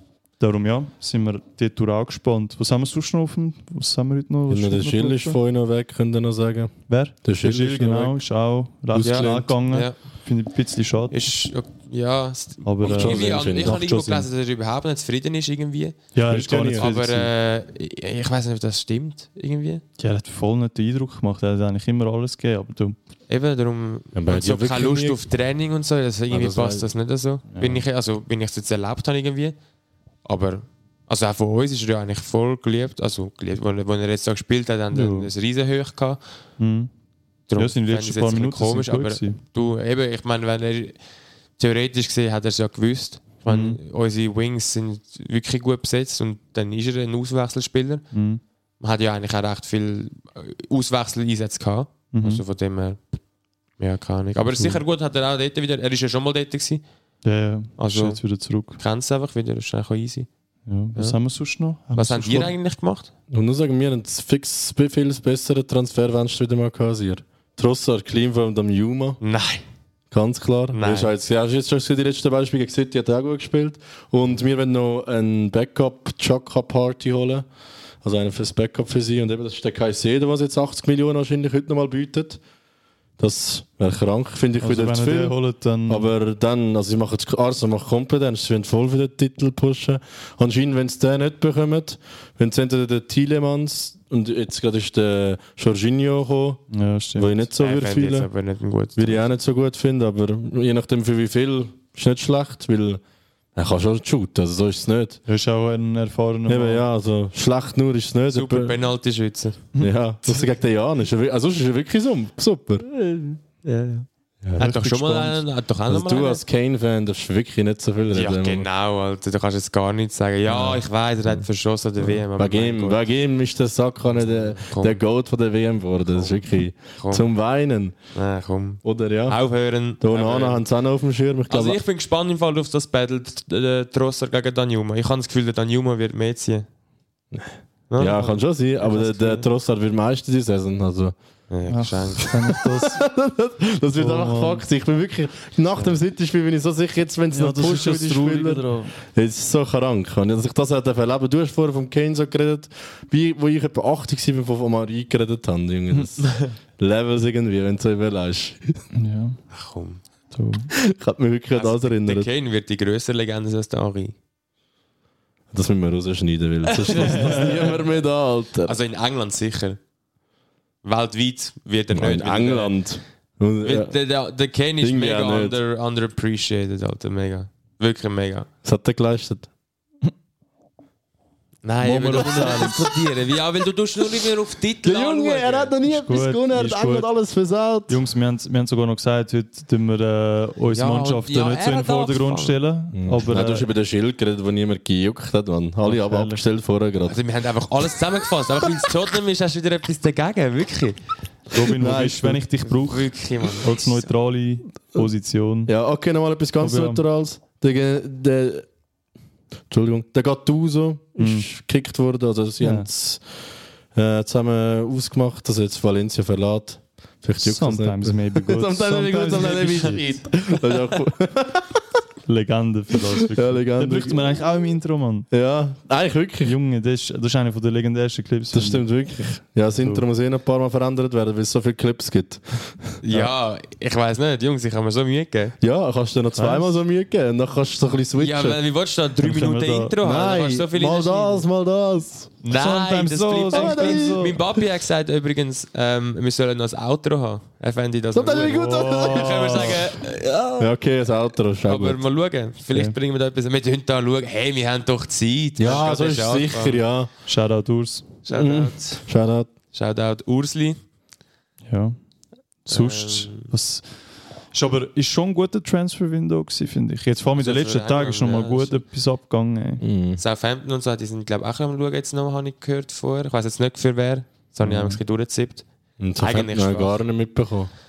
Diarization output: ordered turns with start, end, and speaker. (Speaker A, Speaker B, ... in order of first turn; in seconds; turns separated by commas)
Speaker A: 0.4-5.4, Speaker B: 4.5-8.2, Speaker A: 6.9-11.3, Speaker B: 8.9-9.6, Speaker C: 9.0-9.9, Speaker C: 11.1-16.0, Speaker A: 12.6-14.3, Speaker B: 12.8-13.8, Speaker A: 16.1-17.3, Speaker B: 16.3-16.9, Speaker C: 16.7-19.8, Speaker A: 20.0-23.0, Speaker C: 23.3-29.6, Speaker B: 24.1-25.2, Speaker B: 26.3-26.9, Speaker A: 27.5-27.8, Speaker C: 30.2-36.2, Speaker A: 34.9-35.3, Speaker A: 36.6-36.9, Speaker C: 37.5-41.0, Speaker A: 37.6-39.4, Speaker C: 41.6-48.0, Speaker A: 43.5-43.8, Speaker A: 48.1-48.4, Speaker C: 48.8-53.0, Speaker A: 52.1-52.4, Speaker C: 53.8-56.8, Speaker A: 57.2-58.8, Speaker C: 57.8-58.2, Speaker C: 58.8-60.3, Speaker A: 60.7-62.5, Speaker C: 62.0-63.1, Speaker B: 63.3-69.2, Speaker C: 69.2-69.6, Speaker B: 70.1-77.5, Speaker C: 70.7-71.1, Speaker B: 78.0-82.4, Speaker B: 83.2-85.4, Speaker A: 84.6-86.1, Speaker B: 85.9-96.6, Speaker A: 96.7-97.4, Speaker B: 97.2-98.3, Speaker C: 97.6-99.2, Speaker B: 99.0-103.0, Speaker B: 103.6-105.2, Speaker A: 105.3-106.8, Speaker B: 106.5-108.7, Speaker C: 108.3-109.6, Speaker B: 109.8-112.9, Speaker C: 113.1-114.0, Speaker B: 114.4-114.7, Speaker C: 114.6-116.4, Speaker A: 114.6-115.3, Speaker B: 115.9-118.7, Speaker C: 118.1-123.0, Speaker B: 120.5-120.8, Speaker B: 122.4-128.0, Speaker C: 124.1-125.0, Speaker C: 127.0-127.3, Speaker C: 128.2-130.7, Speaker B: 128.8-129.4, Speaker B: 130.0-131.8, Speaker C: 131.5-136.7, Speaker B: 137.3-141.1, Speaker C: 137.9-139.5, Speaker C: 141.5-142.3, Speaker A: 141.7-143.0, Speaker B: 142.3-158.8, Speaker A: 144.0-144.6, Speaker A: 147.3-148.9, Speaker C: 156.2-156.5, Speaker A: 158.9-159.4, Speaker C: 159.5-160.0, Speaker A: 160.3-160.7, Speaker B: 160.8-162.3, Speaker C: 161.6-164.2, Speaker B: 165.5-168.7, Speaker C: 166.7-167.8, Speaker A: 167.1-167.5, Speaker C: 168.7-169.8, Speaker C: 170.8-172.8, Speaker B: 171.9-173.9, Speaker C: 173.6-178.5, Speaker B: 174.8-175.6, Speaker B: 178.6-179.5, Speaker C: 181.6-185.7, Speaker A: 181.8-182.9, Speaker B: 182.1-182.7, Speaker B: 184.8-188.0, Speaker A: 185.9-187.1, Speaker A: 187.9-193.7, Speaker C: 190.7-192.6, Speaker B: 192.9-197.2, Speaker A: 195.8-196.4, Speaker C: 197.1-201.0, Speaker A: 201.5-205.7, Speaker B: 201.7-202.4, Speaker C: 202.7-204.0, Speaker B: 205.7-208.7, Speaker A: 206.6-207.0, Speaker B: 209.7-213.2, Speaker A: 211.2-211.5, Speaker A: 212.6-212.9, Speaker B: 213.9-221.8, Speaker A: 217.4-220.1, Speaker C: 219.8-220.6, Speaker A: 222.3-225.3, Speaker B: 223.2-224.3, Speaker B: 225.3-226.6, Speaker A: 226.4-228.9, Speaker B: 228.5-232.9, Speaker A: 229.7-230.0, Speaker C: 233.0-235.6, Speaker B: 235.6-238.6, Speaker A: 236.3-236.8, Speaker C: 238.2-241.5, Speaker A: 239.2-240.0, Speaker B: 240.0-242.3, Speaker C: 242.4-250.7, Speaker A: 242.5-244.4, Speaker B: 243.5-244.3, Speaker B: 248.1-249.8, Speaker A: 248.5-249.8, Speaker B: 250.6-252.0, Speaker C: 251.6-256.8, Speaker B: 255.6-257.1, Speaker A: 257.3-258.1, Speaker C: 258.2-259.0, Speaker B: 258.3-259.5, Speaker C: 259.7-260.8, Speaker A: 261.7-262.0, Speaker A: 262.6-263.9, Speaker C: 262.7-263.5, Speaker A: 264.5-269.8, Speaker C: 267.4-268.8, Speaker B: 269.8-270.2, Speaker C: 270.2-275.6, Speaker A: 274.6-275.0, Speaker B: 276.0-277.7, Speaker C: 276.2-277.1